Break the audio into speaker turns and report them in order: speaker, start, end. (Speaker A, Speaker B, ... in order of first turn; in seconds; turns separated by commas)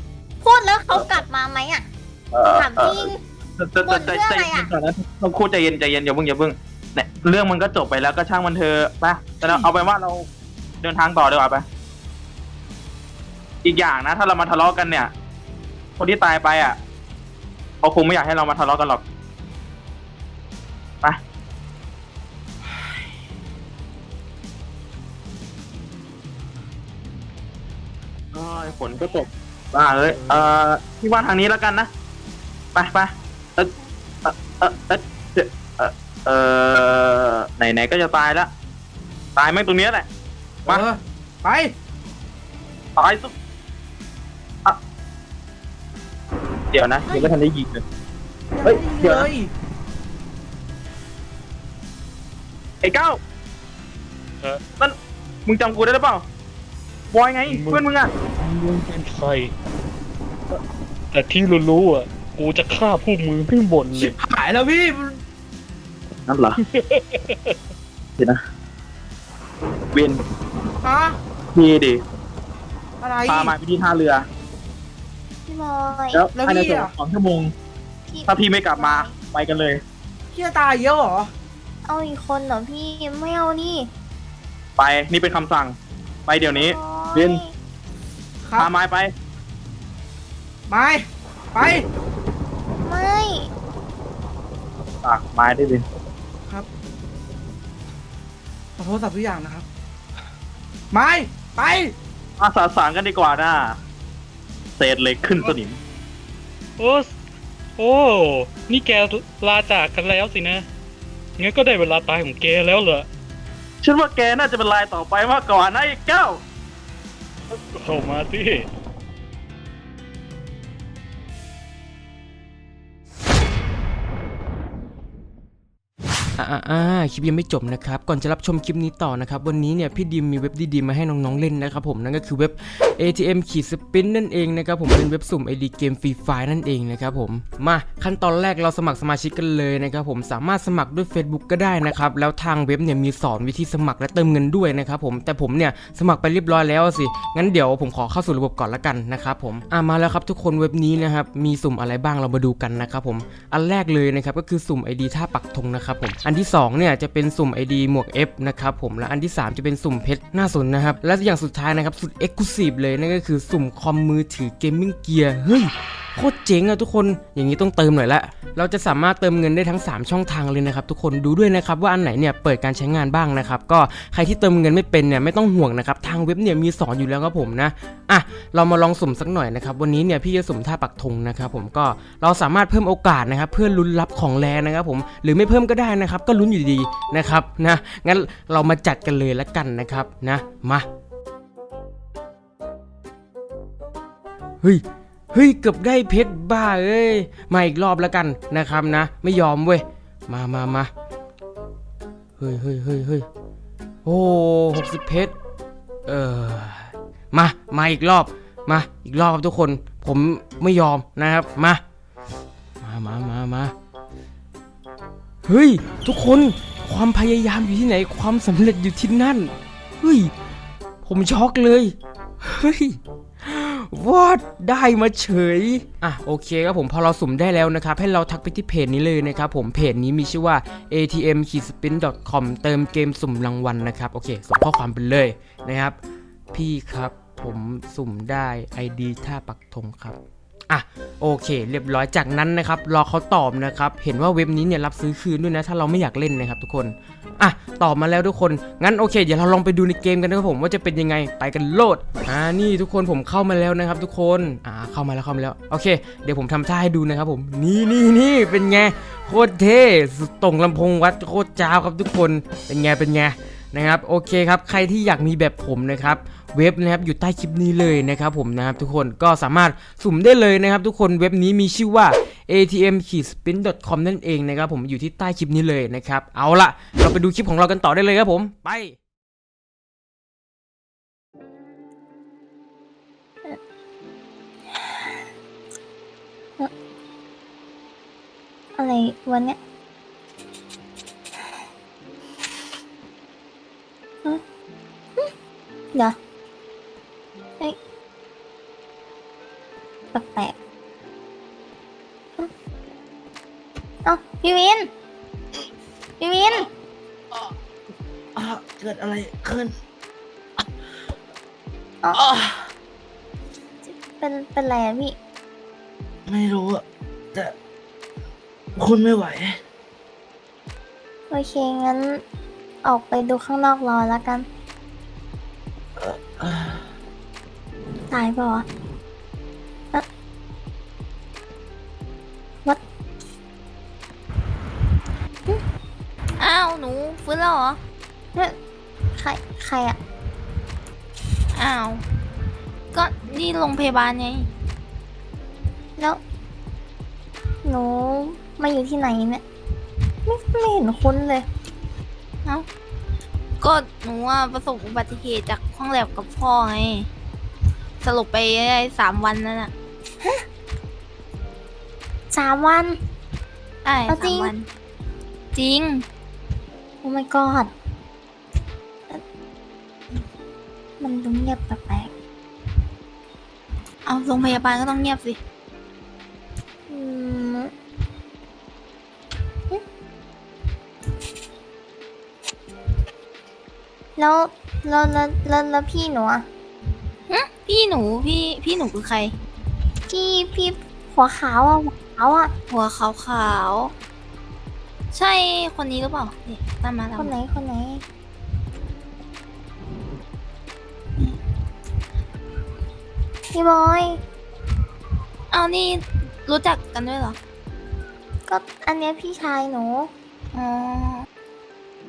Speaker A: 0.4-1.9, Speaker B: 2.3-10.2, Speaker A: 2.5-3.2, Speaker A: 3.8-4.7, Speaker B: 10.8-11.6, Speaker B: 13.6-15.1, Speaker B: 16.0-16.8, Speaker B: 17.8-19.0, Speaker B: 28.3-31.9, Speaker A: 29.0-29.2, Speaker B: 32.7-33.7, Speaker B: 34.2-38.5, Speaker B: 39.4-40.1, Speaker C: 40.6-41.7, Speaker B: 43.0-43.3, Speaker B: 46.7-47.8, Speaker C: 48.5-49.5, Speaker B: 48.6-49.3, Speaker B: 52.8-53.2, Speaker B: 54.8-56.2, Speaker B: 57.1-58.1, Speaker D: 57.5-57.8, Speaker D: 58.4-59.5, Speaker D: 61.1-64.1, Speaker C: 63.9-65.2, Speaker B: 66.3-66.6, Speaker D: 66.6-67.5, Speaker B: 69.9-70.2, Speaker C: 70.8-71.2, Speaker B: 71.5-72.0, Speaker C: 73.0-73.5, Speaker B: 73.3-74.2, Speaker A: 75.5-76.3, Speaker B: 76.1-77.5, Speaker C: 76.3-76.9, Speaker A: 78.1-79.2, Speaker B: 78.3-79.8, Speaker C: 80.3-81.3, Speaker A: 81.8-83.9, Speaker B: 84.8-85.8, Speaker B: 86.3-87.4, Speaker A: 86.5-87.5, Speaker C: 88.4-88.7, Speaker B: 88.6-89.1, Speaker C: 90.7-91.8, Speaker A: 92.8-93.5, Speaker B: 95.0-95.8, Speaker C: 98.8-99.7, Speaker C: 100.9-101.9, Speaker B: 102.4-103.8, Speaker B: 104.8-105.8, Speaker D: 106.8-107.1, Speaker D: 107.8-110.6, Speaker D: 111.4-113.1, Speaker B: 113.8-116.4, Speaker D: 117.5-118.6, Speaker E: 126.4-190.9, Speaker E: 194.6-200.9, Speaker E: 202.4-203.3, Speaker E: 204.0-205.3, Speaker E: 206.1-211.8, Speaker E: 212.8-213.7, Speaker E: 215.4-220.3, Speaker E: 221.0-236.0, Speaker E: 236.5-240.2, Speaker E: 240.7-278.9, Speaker A: 284.7-285.1, Speaker A: 288.8-289.6, Speaker A: 300.1-300.5, Speaker A: 304.0-304.9, Speaker A: 306.2-306.7, Speaker C: 308.4-309.7, Speaker A: 312.0-312.3, Speaker C: 312.1-312.6, Speaker A: 313.8-315.1, Speaker C: 316.3-317.5, Speaker C: 318.8-319.6, Speaker A: 321.3-322.2, Speaker A: 322.8-324.4, Speaker C: 326.0-326.8, Speaker A: 328.1-328.6, Speaker F: 336.4-337.8, Speaker A: 339.1-340.0, Speaker F: 341.5-342.0, Speaker F: 342.9-344.5, Speaker A: 347.6-349.4, Speaker A: 350.2-351.4, Speaker F: 353.6-357.1, Speaker F: 358.0-359.7, Speaker A: 362.3-363.0, Speaker F: 363.8-364.7, Speaker A: 364.1-364.5, Speaker F: 365.5-366.0, Speaker A: 367.0-367.7, Speaker A: 371.0-372.1, Speaker F: 374.1-375.4, Speaker A: 376.9-377.7, Speaker A: 384.1-386.5, Speaker F: 387.3-389.3, Speaker A: 390.1-392.5, Speaker F: 392.7-393.9, Speaker F: 395.1-397.3, Speaker A: 397.2-398.0, Speaker A: 403.5-404.2, Speaker F: 405.5-407.4, Speaker A: 408.5-410.1, Speaker F: 410.5-411.3